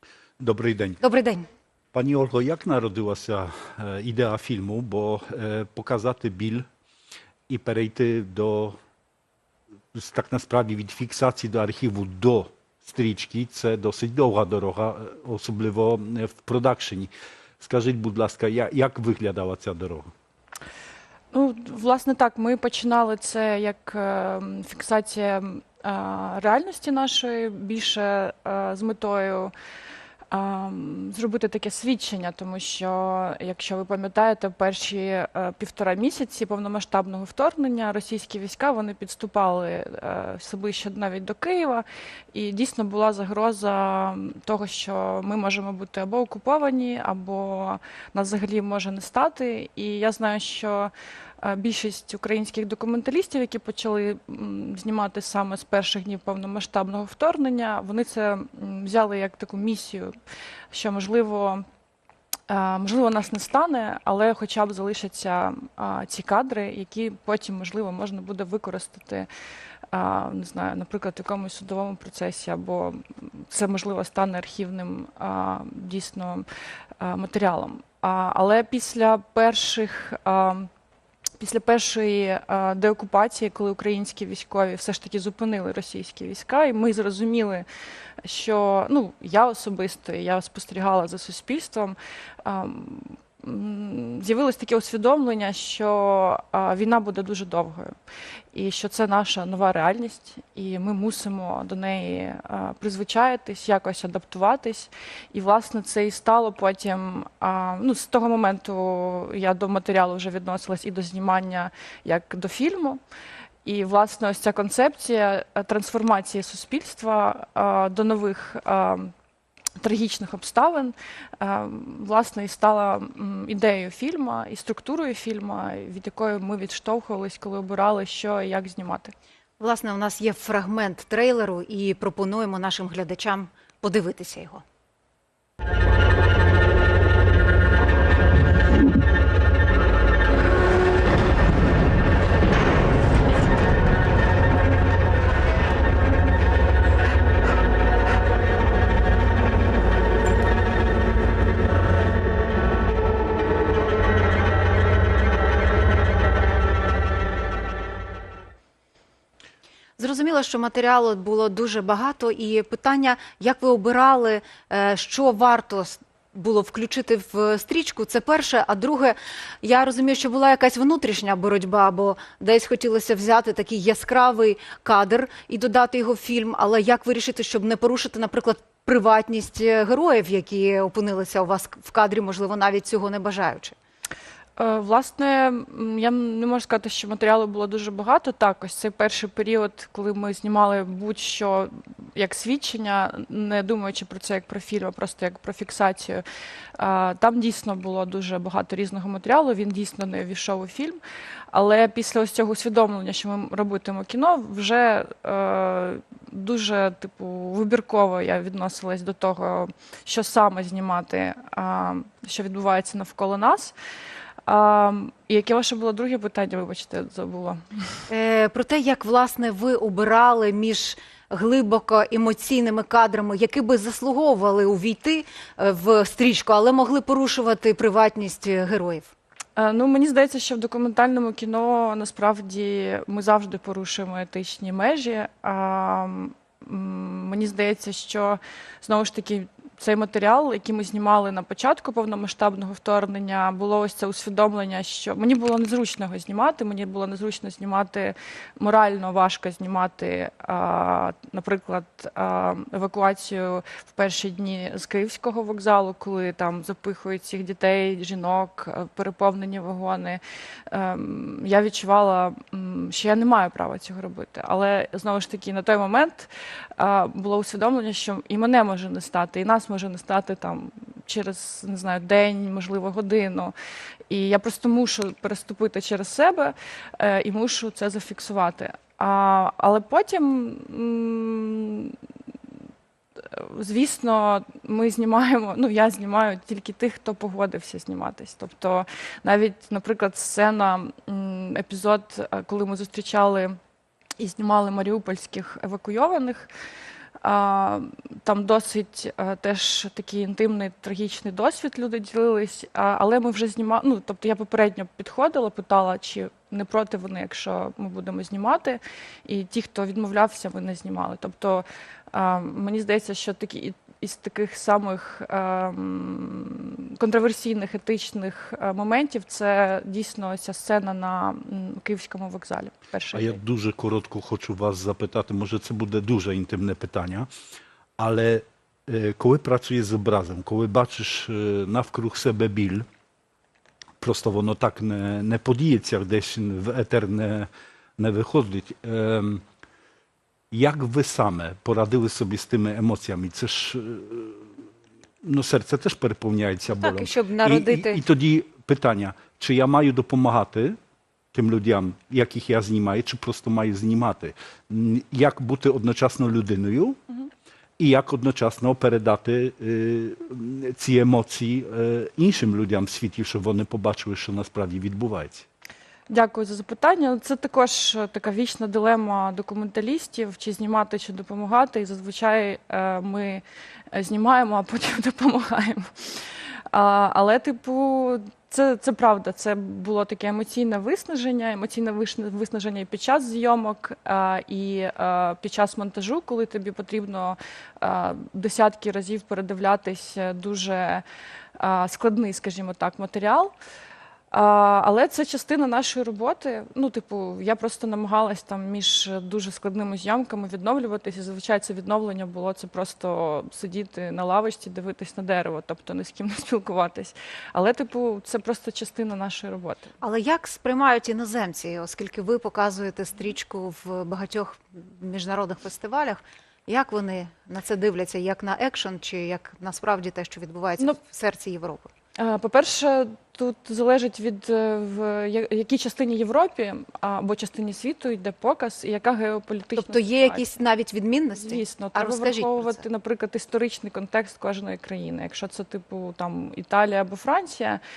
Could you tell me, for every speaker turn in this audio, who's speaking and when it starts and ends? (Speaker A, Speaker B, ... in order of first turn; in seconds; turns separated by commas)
Speaker A: 0.4-1.0, Speaker B: 1.0-1.5, Speaker A: 1.9-6.7, Speaker A: 7.5-8.8, Speaker A: 9.9-20.1, Speaker C: 21.3-29.5, Speaker C: 30.3-60.1, Speaker C: 60.7-61.6, Speaker C: 62.5-69.3, Speaker C: 69.9-76.5, Speaker C: 77.0-80.7, Speaker C: 81.4-87.7, Speaker C: 88.2-98.0, Speaker C: 98.5-113.0, Speaker C: 113.7-119.1, Speaker C: 119.8-129.1, Speaker B: 129.6-134.6, Speaker B: 160.0-183.8, Speaker C: 184.6-196.2, Speaker C: 196.8-201.0, Speaker C: 201.5-213.8, Speaker C: 214.5-218.0, Speaker B: 218.1-229.1, Speaker C: 229.6-273.5, Speaker C: 274.1-282.0, Speaker C: 283.2-293.6, Speaker C: 294.2-296.5, Speaker C: 297.2-323.4, Speaker A: 323.1-327.3, Speaker A: 328.0-332.9, Speaker A: 334.0-339.4, Speaker A: 340.5-344.4, Speaker A: 345.2-350.8, Speaker B: 346.8-348.0, Speaker A: 351.3-357.0, Speaker A: 357.8-365.5, Speaker C: 366.1-376.2, Speaker C: 376.7-391.0, Speaker C: 391.6-393.5, Speaker C: 394.3-409.9, Speaker B: 410.0-421.9, Speaker C: 422.2-430.4, Speaker B: 429.8-432.8, Speaker C: 431.4-437.8